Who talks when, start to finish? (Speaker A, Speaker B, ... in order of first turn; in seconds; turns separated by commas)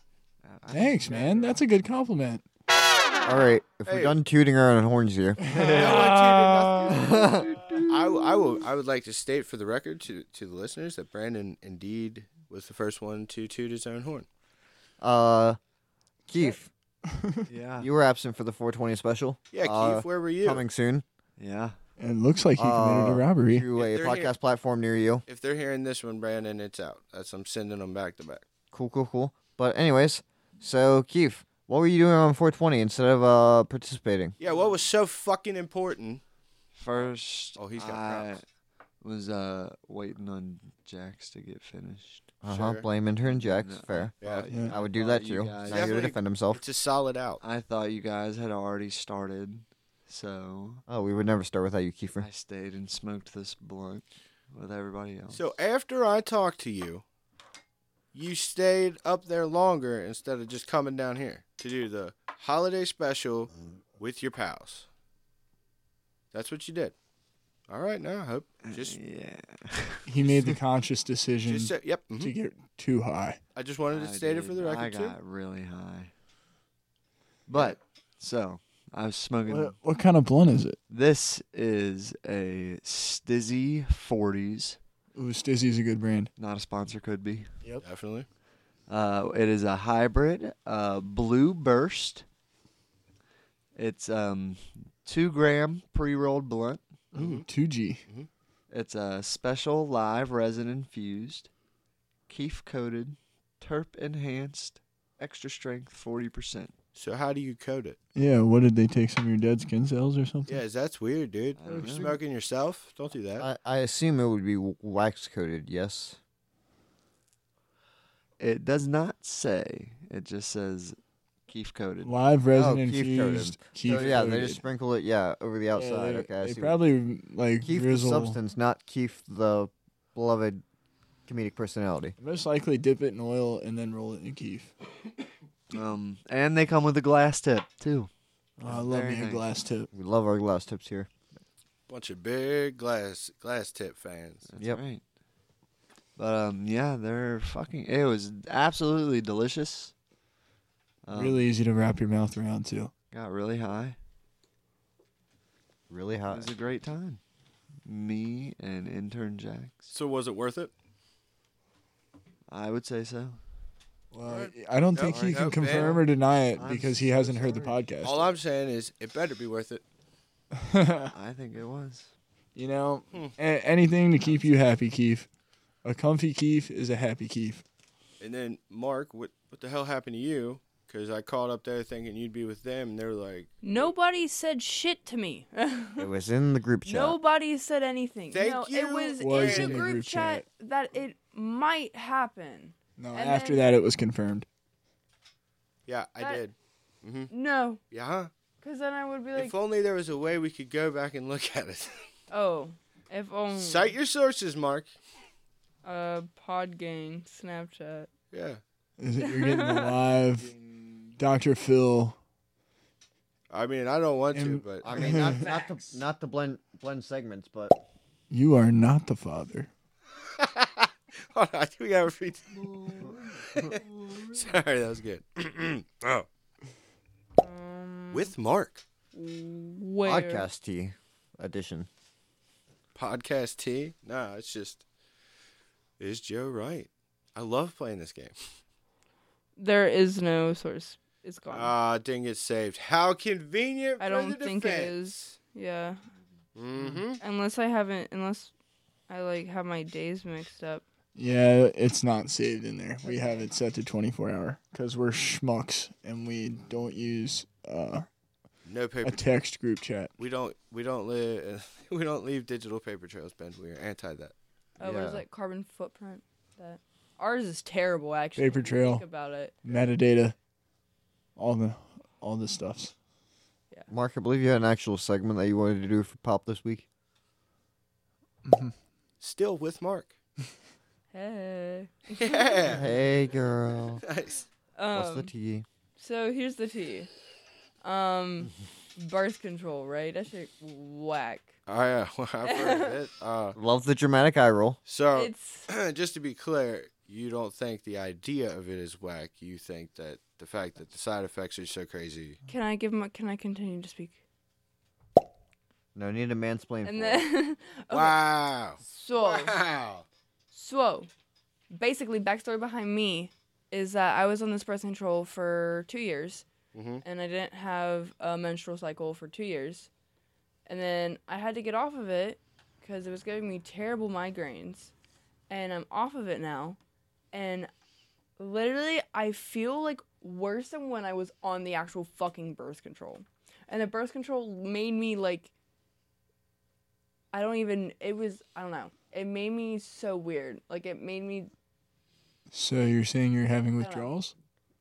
Speaker A: 0.4-1.6, Speaker B: 0.7-2.5, Speaker C: 3.2-5.5, Speaker D: 3.9-4.2, Speaker B: 5.4-7.9, Speaker A: 5.5-6.1, Speaker D: 5.6-14.3, Speaker C: 6.9-7.6, Speaker C: 15.0-15.6, Speaker C: 16.3-16.7, Speaker B: 17.1-17.5, Speaker A: 17.5-17.9, Speaker C: 17.8-21.1, Speaker D: 19.5-20.6, Speaker A: 21.4-21.8, Speaker B: 22.0-23.7, Speaker C: 22.6-25.2, Speaker D: 23.8-24.3, Speaker D: 25.3-28.4, Speaker C: 28.7-34.4, Speaker D: 34.4-36.2, Speaker A: 34.5-34.8, Speaker A: 36.8-38.4, Speaker D: 36.9-38.4, Speaker A: 39.0-42.3, Speaker C: 42.4-44.1, Speaker D: 42.5-42.9, Speaker A: 43.2-46.1, Speaker D: 44.2-44.5, Speaker B: 44.5-44.8, Speaker C: 44.7-46.6, Speaker D: 45.7-47.4, Speaker A: 47.4-50.8, Speaker C: 50.9-52.3, Speaker A: 52.2-55.5, Speaker D: 55.3-57.0, Speaker D: 58.1-64.9, Speaker D: 66.3-67.0, Speaker D: 67.7-69.0, Speaker A: 68.6-70.3, Speaker B: 70.1-73.4, Speaker D: 71.5-72.3, Speaker D: 73.5-75.2, Speaker A: 73.9-76.1, Speaker C: 77.5-77.8, Speaker A: 77.5-79.8, Speaker B: 79.5-80.8, Speaker A: 80.9-84.8, Speaker B: 85.2-86.3, Speaker A: 86.4-87.5, Speaker D: 87.8-88.3, Speaker A: 88.9-92.2, Speaker A: 93.8-96.8, Speaker B: 97.1-98.0, Speaker D: 97.2-97.5, Speaker A: 98.7-101.5, Speaker A: 102.3-106.7, Speaker D: 107.0-108.0, Speaker B: 108.2-110.6, Speaker D: 110.5-113.5, Speaker A: 111.6-112.2, Speaker B: 111.7-112.1, Speaker C: 113.4-116.2, Speaker A: 118.4-122.1, Speaker B: 122.0-124.6, Speaker C: 122.5-126.8, Speaker A: 123.8-124.2, Speaker B: 125.8-128.4, Speaker C: 127.6-130.6, Speaker C: 131.3-132.2, Speaker B: 132.2-134.7, Speaker A: 135.7-138.1, Speaker B: 138.6-139.9, Speaker A: 138.6-139.5, Speaker C: 139.9-141.1, Speaker D: 141.9-144.4, Speaker A: 144.5-145.0, Speaker A: 146.2-149.9, Speaker A: 151.1-151.5, Speaker B: 151.1-152.9, Speaker A: 153.1-154.0, Speaker C: 155.9-156.5, Speaker A: 156.3-157.2, Speaker A: 157.8-159.9, Speaker D: 159.9-160.7, Speaker A: 162.5-163.4, Speaker B: 164.1-168.2, Speaker D: 164.2-166.0, Speaker A: 165.1-167.8, Speaker D: 168.0-169.8, Speaker B: 170.6-171.1, Speaker A: 171.1-172.1, Speaker B: 172.6-175.3, Speaker A: 174.2-174.5, Speaker B: 175.8-177.6, Speaker D: 178.2-183.9, Speaker E: 183.6-186.1, Speaker C: 186.0-187.2, Speaker E: 186.8-193.7, Speaker D: 188.3-189.9, Speaker B: 189.2-190.4, Speaker B: 193.0-194.5, Speaker D: 195.9-197.3, Speaker E: 197.3-197.8, Speaker D: 197.9-198.3, Speaker E: 198.6-199.6, Speaker D: 199.3-202.1, Speaker E: 202.3-203.9, Speaker D: 203.5-204.9, Speaker E: 205.8-208.1, Speaker D: 208.3-208.6, Speaker B: 209.0-210.5, Speaker E: 209.2-210.0, Speaker B: 211.2-212.2, Speaker D: 213.5-214.9, Speaker B: 214.3-215.5, Speaker C: 214.8-217.8, Speaker B: 218.3-219.7, Speaker D: 220.4-226.3, Speaker A: 222.6-224.2, Speaker E: 227.4-228.3, Speaker D: 228.1-228.8, Speaker E: 229.1-230.5, Speaker C: 230.0-231.9, Speaker D: 232.9-234.8, Speaker D: 236.0-238.4, Speaker E: 239.6-241.8, Speaker D: 241.5-245.0, Speaker E: 244.0-246.0, Speaker D: 246.6-247.2, Speaker E: 247.2-248.5, Speaker E: 249.1-250.8, Speaker B: 251.2-258.1, Speaker D: 258.6-259.3, Speaker B: 259.0-260.1, Speaker D: 260.2-264.3, Speaker E: 264.8-269.6, Speaker C: 264.8-265.2, Speaker B: 268.4-269.1, Speaker B: 269.6-270.4, Speaker B: 271.4-272.9, Speaker C: 273.9-276.9, Speaker B: 278.4-278.7, Speaker D: 279.2-280.1, Speaker E: 281.1-282.7, Speaker D: 282.2-282.8, Speaker C: 282.7-284.0, Speaker D: 284.0-284.5, Speaker E: 284.8-285.3, Speaker C: 284.9-285.6, Speaker E: 286.0-287.1, Speaker E: 287.8-291.5, Speaker D: 291.7-293.6, Speaker E: 292.4-292.9, Speaker C: 293.5-294.8, Speaker D: 294.9-302.4, Speaker E: 295.1-295.7, Speaker E: 302.5-304.2, Speaker C: 305.9-307.3, Speaker E: 306.9-309.6, Speaker D: 307.9-310.1, Speaker E: 310.5-311.1, Speaker E: 311.7-316.5, Speaker D: 316.7-317.0, Speaker E: 317.0-319.9, Speaker E: 320.7-324.9, Speaker E: 325.5-326.8, Speaker E: 327.3-327.7, Speaker E: 328.4-335.5, Speaker E: 337.3-341.5, Speaker B: 342.5-344.3, Speaker E: 343.8-344.1